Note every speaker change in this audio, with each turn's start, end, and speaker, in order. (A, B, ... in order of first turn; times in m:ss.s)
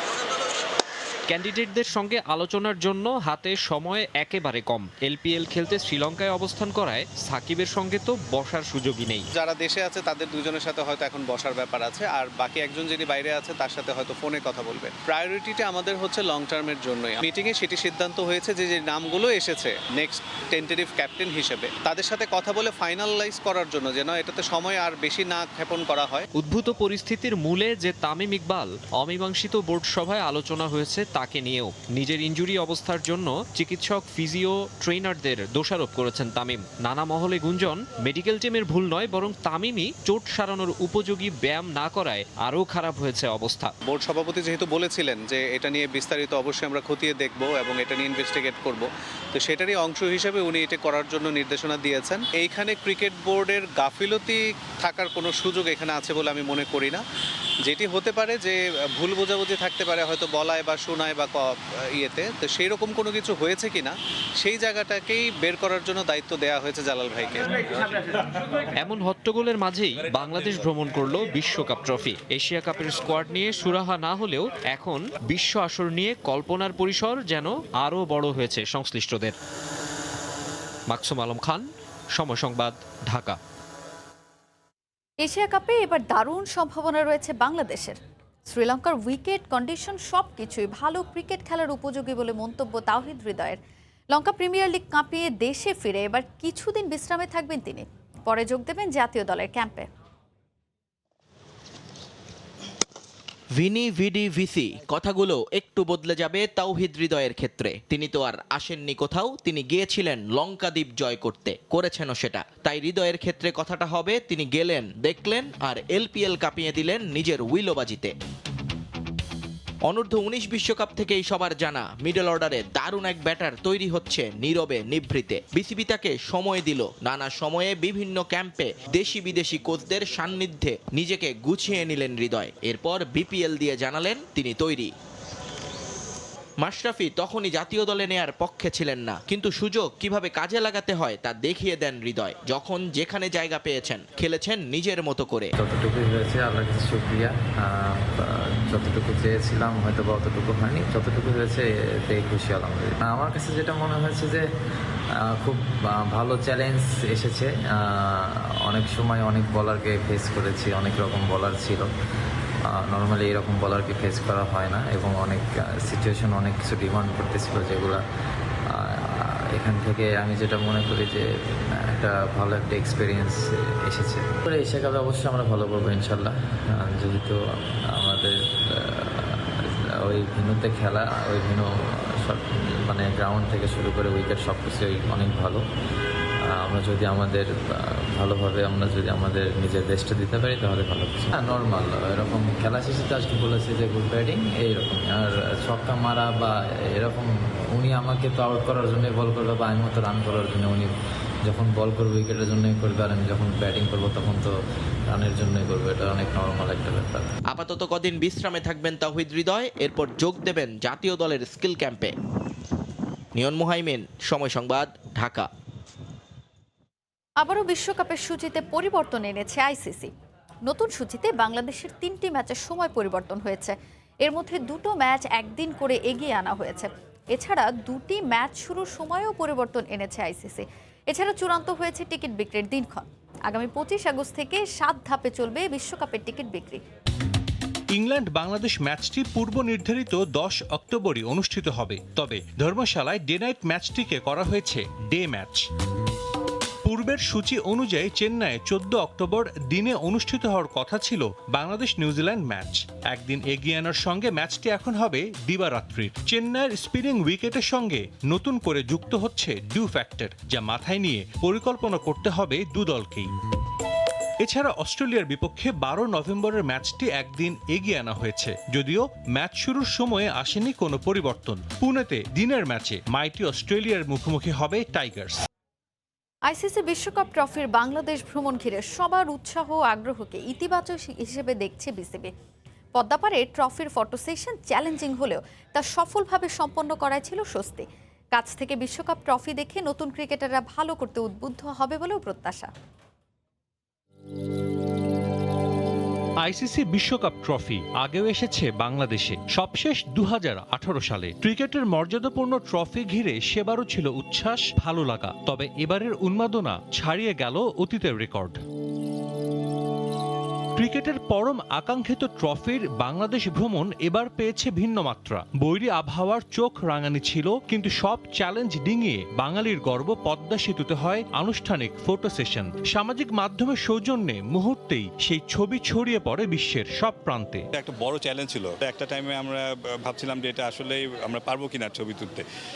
0:01.3-0:09.2 A
0:09.3-0:26.2 B
0:26.4-0:43.7 A
0:43.8-0:57.0 B
0:57.6-1:07.6 B
1:08.8-1:19.4 A
1:20.9-1:23.4 A
1:25.2-1:33.6 C
1:34.1-1:39.9 C
1:43.6-1:58.1 D
1:59.9-2:14.9 D
2:16.6-2:25.5 D
2:25.6-2:34.4 E
2:35.2-2:41.9 E
2:42.7-2:48.0 E
2:48.7-3:05.6 E
3:06.4-3:20.9 E
3:21.4-3:24.5 E
3:25.1-3:27.3 E
3:27.5-3:32.1 D
3:33.3-3:35.5 D
3:37.4-3:40.1 C
3:40.6-3:56.8 C
3:57.9-4:05.6 F
4:06.8-4:23.3 F
4:24.4-4:35.4 F
4:36.5-4:42.3 C
4:43.0-4:52.7 C
4:56.4-5:08.6 F
5:10.8-5:27.6 F
5:27.7-5:32.4 G